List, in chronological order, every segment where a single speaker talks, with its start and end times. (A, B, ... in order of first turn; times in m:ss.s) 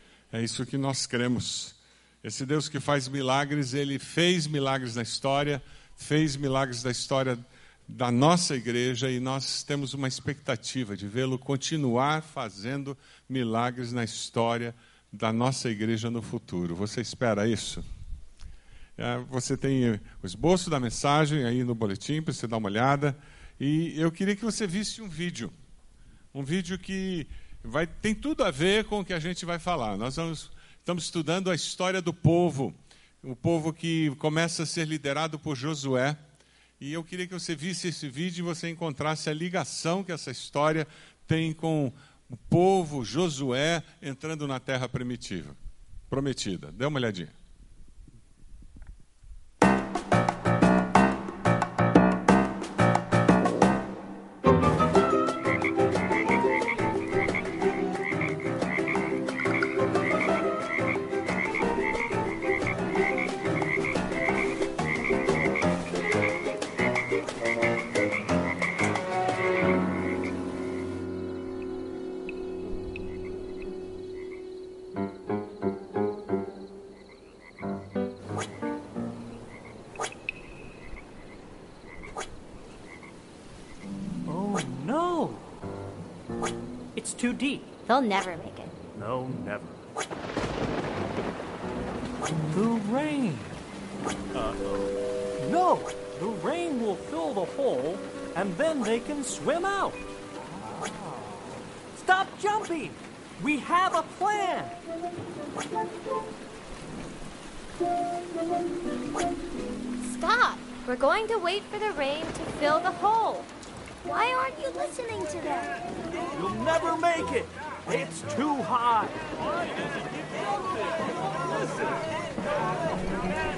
0:00.3-0:17.8 A
0:19.0-0:25.5 A
0:26.3-0:36.2 A
0:36.8-0:45.6 A
0:46.1-0:47.3 A
1:24.3-1:25.4 B
1:27.0-1:27.7 B
1:27.9-1:28.8 C
1:29.0-1:29.8 B
1:32.5-1:33.6 B
1:34.3-1:40.0 B
1:40.6-1:41.3 B
1:41.9-1:44.8 B
1:50.0-1:53.5 C
1:54.0-1:55.8 C
1:56.3-1:59.3 B
2:01.5-2:02.0 B